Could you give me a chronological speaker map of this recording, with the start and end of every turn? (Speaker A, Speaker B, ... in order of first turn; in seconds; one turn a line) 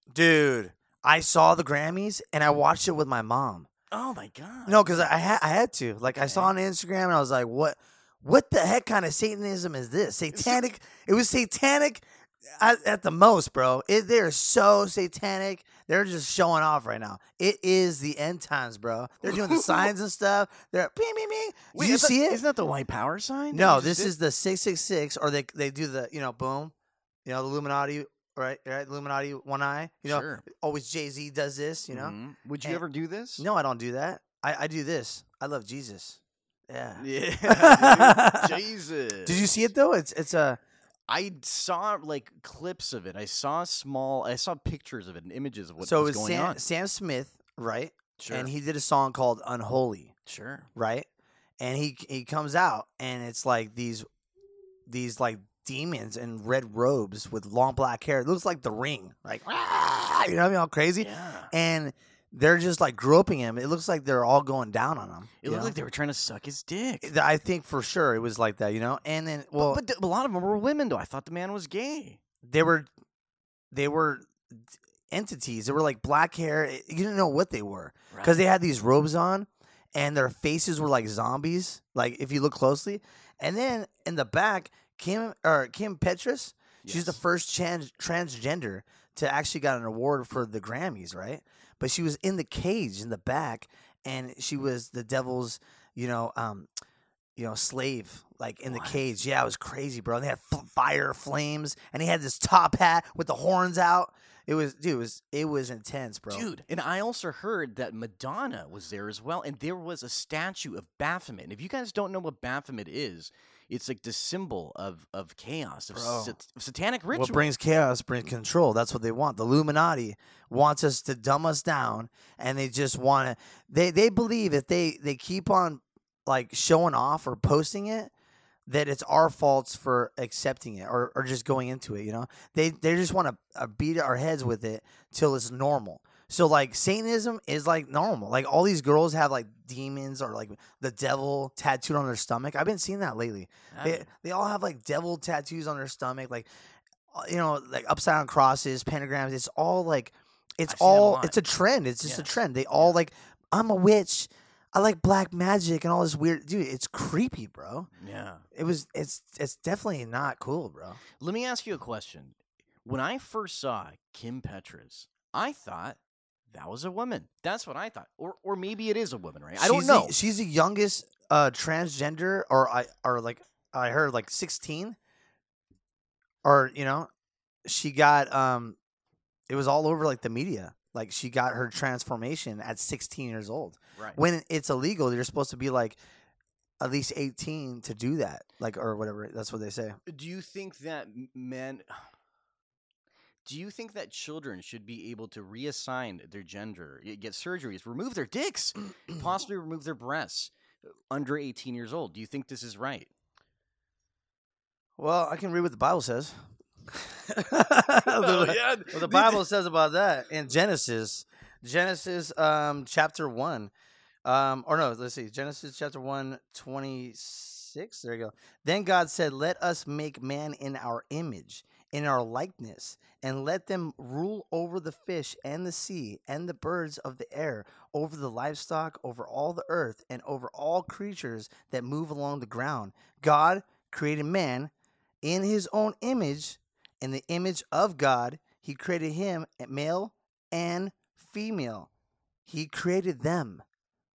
Speaker A: 0.1-3.7
Speaker B: 3.9-5.1
Speaker A: 4.6-22.4
Speaker B: 6.2-6.5
Speaker B: 10.3-10.6
Speaker B: 19.2-19.9
Speaker B: 21.7-24.1
Speaker A: 23.5-26.7
Speaker A: 27.2-32.8
Speaker B: 30.0-30.4
Speaker B: 31.9-33.4
Speaker A: 33.4-38.5
Speaker B: 37.0-39.5
Speaker A: 39.2-40.6
Speaker B: 41.1-46.6
Speaker A: 45.8-50.1
Speaker B: 48.2-48.5
Speaker B: 50.2-50.7
Speaker A: 50.7-51.1
Speaker A: 51.6-54.0
Speaker A: 54.9-65.8
Speaker B: 61.0-61.5
Speaker B: 65.4-67.1
Speaker A: 67.0-69.8
Speaker B: 69.5-72.2
Speaker A: 72.4-72.9
Speaker A: 73.7-74.3
Speaker A: 75.1-96.7
Speaker B: 78.1-78.4
Speaker B: 86.8-87.2
Speaker A: 97.4-106.5
Speaker B: 98.7-99.0
Speaker B: 106.3-117.5
Speaker A: 115.9-116.4
Speaker A: 117.1-128.1
Speaker A: 128.7-146.5
Speaker B: 143.7-144.1
Speaker A: 147.1-157.9
Speaker B: 150.7-151.4
Speaker B: 152.0-153.0
Speaker B: 158.0-158.4
Speaker A: 158.5-161.0
Speaker B: 161.2-166.0
Speaker B: 166.5-170.1
Speaker A: 169.6-174.9
Speaker A: 176.4-177.1
Speaker A: 177.6-178.8
Speaker A: 179.5-186.0
Speaker A: 186.8-190.0
Speaker B: 190.1-192.0
Speaker B: 193.4-200.5
Speaker B: 201.1-203.1
Speaker A: 205.0-206.3
Speaker A: 206.9-213.7
Speaker B: 208.0-209.4
Speaker A: 214.2-234.7
Speaker A: 235.2-241.9
Speaker A: 242.4-243.6